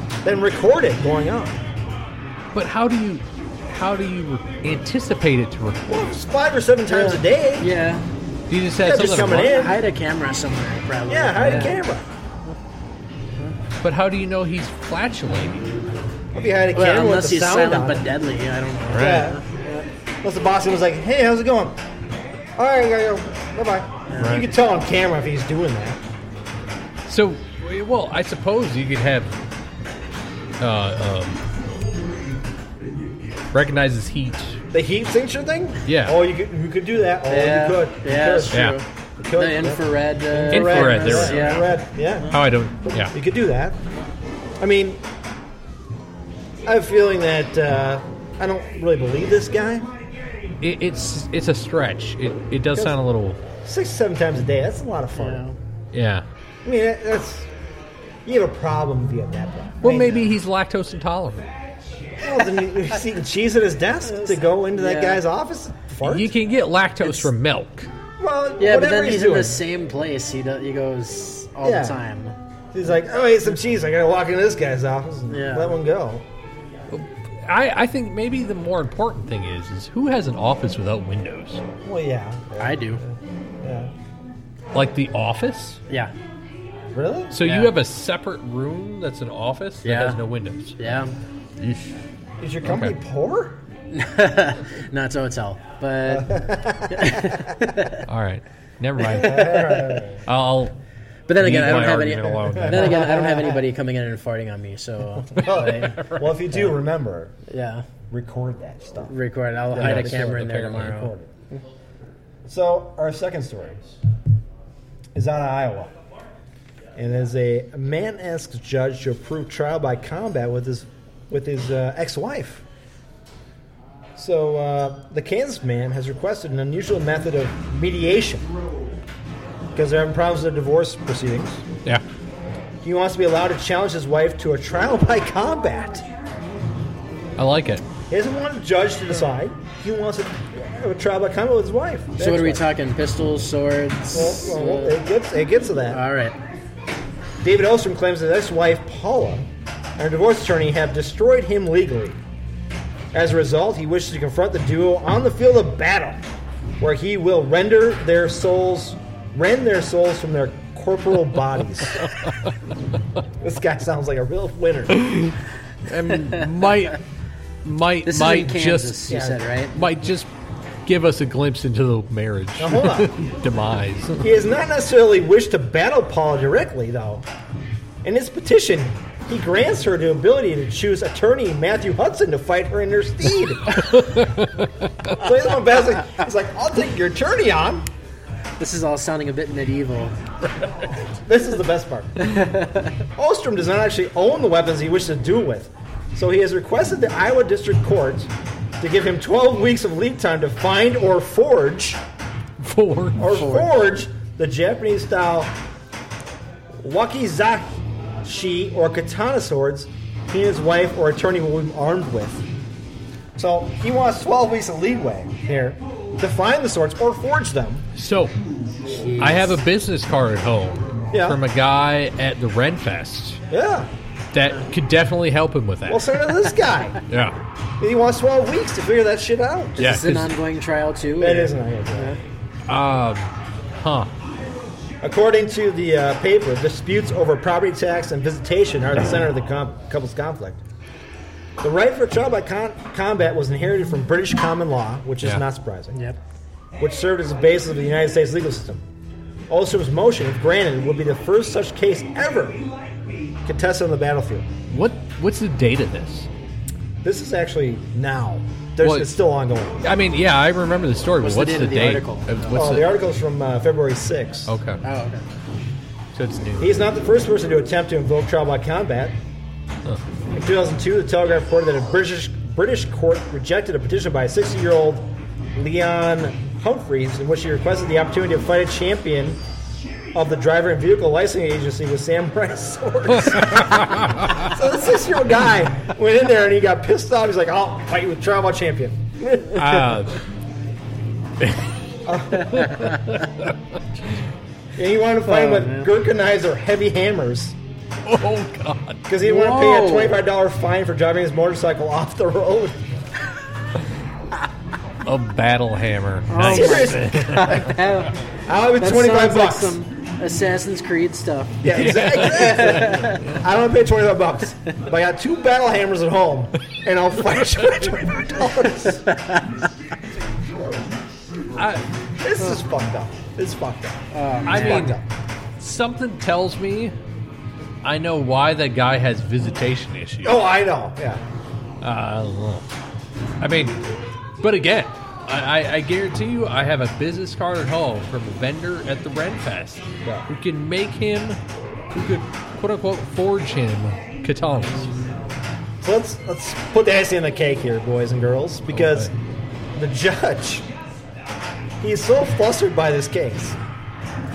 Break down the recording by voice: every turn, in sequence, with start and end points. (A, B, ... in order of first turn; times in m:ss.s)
0:00.2-0:01.6 A
0:02.5-0:06.0 B
0:05.9-0:07.7 A
0:06.9-0:08.0 C
0:08.5-0:09.6 B
0:08.8-0:09.8 A
0:09.0-0:11.8 C
0:11.1-0:12.1 A
0:13.8-0:15.7 B
0:16.3-0:18.1 A
0:16.7-0:19.8 C
0:18.9-0:19.3 B
0:18.9-0:19.4 A
0:20.2-0:21.8 A
0:22.6-0:26.0 A
0:24.1-0:24.4 C
0:24.2-0:24.5 B
0:27.1-0:29.4 B
0:30.6-0:31.4 B
0:33.5-0:34.6 B
0:34.7-0:42.4 A
0:35.8-0:36.2 B
0:37.3-0:41.8 C
0:38.5-0:38.8 B
0:40.5-0:41.7 B
0:42.3-0:43.1 B
0:43.1-0:43.8 A
0:44.6-0:45.0 A
0:46.6-0:49.9 A
0:50.6-0:53.4 B
0:53.6-0:55.4 A
0:55.2-0:55.6 C
0:55.9-0:56.2 B
0:56.6-0:57.5 A
0:58.2-1:00.3 A
0:59.8-1:01.5 B
1:02.2-1:06.3 A
1:04.1-1:05.2 C
1:06.0-1:07.9 B
1:08.2-1:09.6 A
1:08.6-1:12.4 C
1:11.6-1:12.0 A
1:12.7-1:16.2 A
1:15.3-1:15.8 C
1:16.9-1:21.6 B
1:21.8-1:23.9 A
1:22.6-1:23.0 C
1:24.7-1:25.8 B
1:26.9-1:27.4 A
1:27.3-1:31.0 B
1:27.4-1:27.7 C
1:29.8-1:30.2 C
1:30.8-1:31.1 C
1:31.6-1:31.9 B
1:32.4-1:33.6 A
1:32.6-1:33.0 B
1:33.9-1:38.0 C
1:36.0-1:37.5 A
1:38.0-1:39.6 B
1:39.0-1:40.2 A
1:39.1-1:40.0 C
1:40.2-1:40.7 B
1:41.3-1:46.0 C
1:41.4-1:43.2 B
1:42.4-1:43.6 A
1:45.3-1:47.3 A
1:45.4-1:46.3 B
1:47.5-1:47.8 C
1:48.1-1:49.1 A
1:49.1-1:51.6 C
1:49.7-1:51.3 A
1:49.7-1:51.0 B
1:52.4-1:53.8 A
1:55.1-1:55.9 A
1:57.0-2:02.6 A
2:04.2-2:08.5 A
2:09.7-2:11.6 A
2:12.8-2:16.0 A
2:17.4-2:17.8 B
2:18.1-2:22.6 A
2:22.2-2:25.0 C
2:24.1-2:26.0 A
2:25.9-2:26.4 C
2:27.4-2:32.2 A
2:33.1-2:36.2 A
2:36.8-2:42.1 A
2:42.2-2:42.5 B
2:43.4-2:45.2 A
2:44.9-2:47.0 B
2:47.6-2:49.1 B
2:48.0-2:49.8 C
2:49.1-2:49.5 A
2:49.7-2:50.3 B
2:50.8-2:54.3 B
2:52.6-2:53.1 A
2:54.2-2:57.2 A
2:58.0-3:04.0 A
3:03.7-3:05.2 B
3:05.1-3:07.9 A
3:08.6-3:10.2 C
3:11.1-3:12.5 A
3:12.2-3:13.0 C
3:13.2-3:22.0 A
3:22.6-3:23.5 B
3:23.2-3:25.6 A
3:23.4-3:23.7 C
3:26.8-3:32.4 A
3:33.4-3:37.8 A
3:37.9-3:38.3 B
3:38.8-3:39.6 C
3:39.2-3:43.4 B
3:41.1-3:41.4 A
3:43.5-3:43.9 A
3:44.3-3:46.2 B
3:45.9-3:47.0 A
3:47.1-3:47.4 B
3:47.8-3:49.8 A
3:49.8-3:50.3 B
3:49.8-3:52.2 C
3:51.2-3:52.2 A
3:52.7-3:54.1 B
3:55.0-4:00.6 A
4:01.6-4:06.0 A
4:06.8-4:08.8 A
4:09.5-4:12.7 A
4:13.4-4:14.5 A
4:14.7-4:16.3 B
4:17.0-4:19.8 A
4:18.8-4:19.2 B
4:19.8-4:22.9 B
4:21.2-4:22.6 C
4:22.5-4:24.5 A
4:24.5-4:24.8 B
4:24.8-4:25.2 C
4:26.1-4:26.8 B
4:26.6-4:29.2 A
4:30.3-4:39.4 A
4:40.1-4:50.0 A
4:43.1-4:44.5 B
4:49.5-4:50.2 B
4:51.4-4:51.7 B
4:52.0-4:52.8 A
4:52.4-4:53.1 C
4:52.5-4:53.6 B
4:54.7-4:57.6 A
4:55.2-4:55.9 C
4:58.0-4:59.1 B
4:59.1-5:02.8 A
4:59.2-5:00.2 C
5:05.0-5:07.8 B
5:06.3-5:08.1 C
5:06.4-5:07.8 A
5:08.4-5:09.8 A
5:08.8-5:11.6 C
5:11.6-5:19.1 A
5:11.7-5:13.4 B
5:12.3-5:13.2 C
5:19.1-5:19.4 C
5:21.6-5:21.8 B
5:22.2-5:25.0 A
5:24.1-5:24.9 C
5:24.4-5:25.0 B
5:25.6-5:26.9 B
5:27.8-5:30.4 B
5:30.2-5:31.2 A
5:31.8-5:32.6 B
5:33.4-5:33.8 B
5:34.4-5:44.9 B
5:45.8-5:49.1 A
5:48.7-5:49.1 B
5:49.7-5:50.6 A
5:51.8-5:53.6 A